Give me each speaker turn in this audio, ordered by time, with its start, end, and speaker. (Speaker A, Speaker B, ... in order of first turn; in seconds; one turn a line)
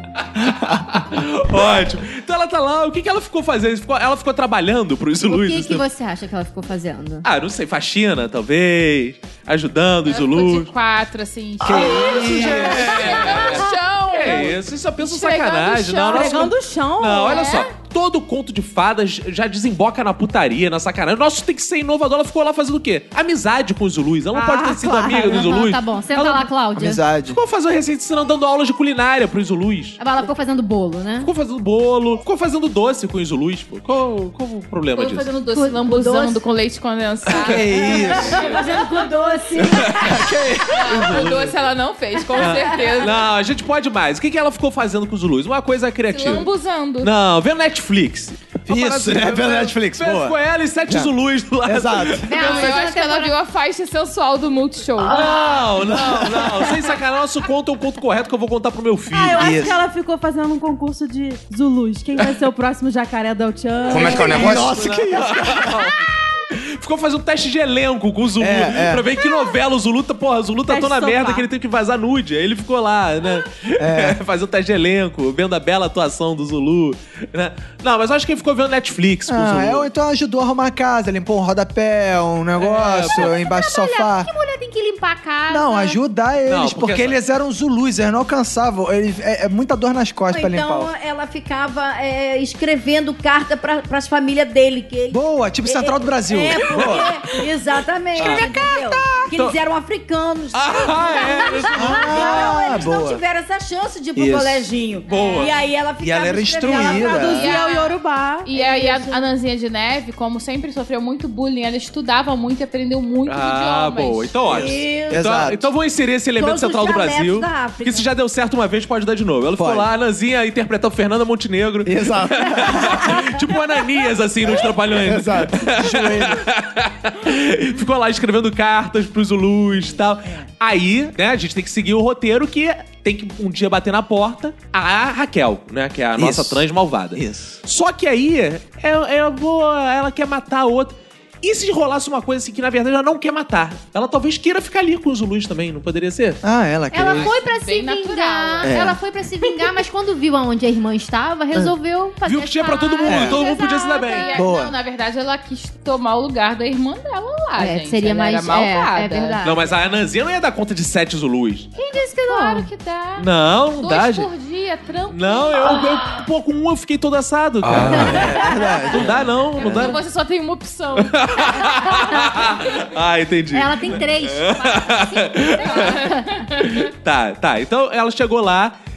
Speaker A: 0.3-5.8
Speaker B: 5.2-7.2
Speaker A: 7.2-10.7
Speaker C: 10.1-16.5
Speaker D: 11.6-13.3
Speaker A: 11.7-26.5
Speaker E: 16.1-17.5
Speaker C: 17.2-17.7
Speaker E: 24.3-25.5
Speaker B: 25.2-27.0
Speaker D: 26.7-27.4
Speaker A: 27.3-30.0
Speaker B: 30.0-31.3
Speaker A: 31.2-35.3
Speaker C: 35.0-38.6
Speaker B: 35.5-36.4
Speaker A: 37.3-38.7
Speaker D: 37.4-38.5
Speaker E: 38.4-39.9
Speaker F: 38.4-39.8
Speaker A: 39.6-40.3
Speaker D: 39.8-41.4
Speaker C: 40.7-43.2
Speaker A: 40.9-41.5
Speaker A: 42.4-46.5
Speaker C: 46.1-47.1
Speaker A: 47.0-52.8
Speaker D: 48.7-50.4
Speaker D: 50.9-51.1
Speaker D: 51.6-52.3
Speaker B: 52.2-53.3
Speaker C: 52.3-55.2
Speaker A: 55.0-59.6
Speaker D: 55.8-56.5
Speaker E: 59.1-64.6
Speaker D: 59.4-59.8
Speaker D: 63.9-65.9
Speaker A: 63.9-79.9
Speaker D: 68.4-69.1
Speaker E: 70.7-71.5
Speaker D: 73.8-74.2
Speaker D: 79.3-84.3
Speaker A: 82.5-83.4
Speaker B: 83.4-86.0
Speaker D: 85.5-90.9
Speaker A: 86.5-87.2
Speaker F: 90.3-107.5
Speaker D: 95.1-97.1
Speaker A: 98.2-99.6
Speaker A: 100.5-102.5
Speaker D: 101.7-103.2
Speaker D: 104.2-104.7
Speaker A: 105.1-105.6
Speaker C: 105.1-105.5
Speaker D: 106.0-107.5
Speaker E: 106.7-108.9
Speaker C: 107.2-114.3
Speaker F: 108.5-109.0
Speaker A: 113.2-146.4
Speaker F: 114.5-115.2
Speaker D: 115.1-115.7
Speaker F: 116.4-118.1
Speaker D: 119.6-119.9
Speaker D: 121.8-123.3
Speaker D: 124.8-126.5
Speaker D: 136.2-137.6
Speaker D: 146.4-147.3
Speaker B: 146.9-154.3
Speaker C: 147.0-148.7
Speaker D: 148.6-149.0
Speaker A: 152.2-154.3
Speaker C: 152.8-159.4
Speaker D: 153.0-153.4
Speaker D: 154.3-154.7
Speaker B: 157.6-159.8
Speaker A: 159.4-161.7
Speaker B: 161.8-162.7
Speaker C: 161.8-163.3
Speaker A: 163.2-164.3
Speaker C: 163.8-165.9
Speaker A: 165.1-170.0
Speaker D: 167.6-169.9
Speaker C: 169.6-172.5
Speaker A: 171.0-178.7
Speaker B: 171.9-172.4
Speaker B: 173.5-176.4
Speaker C: 175.6-176.8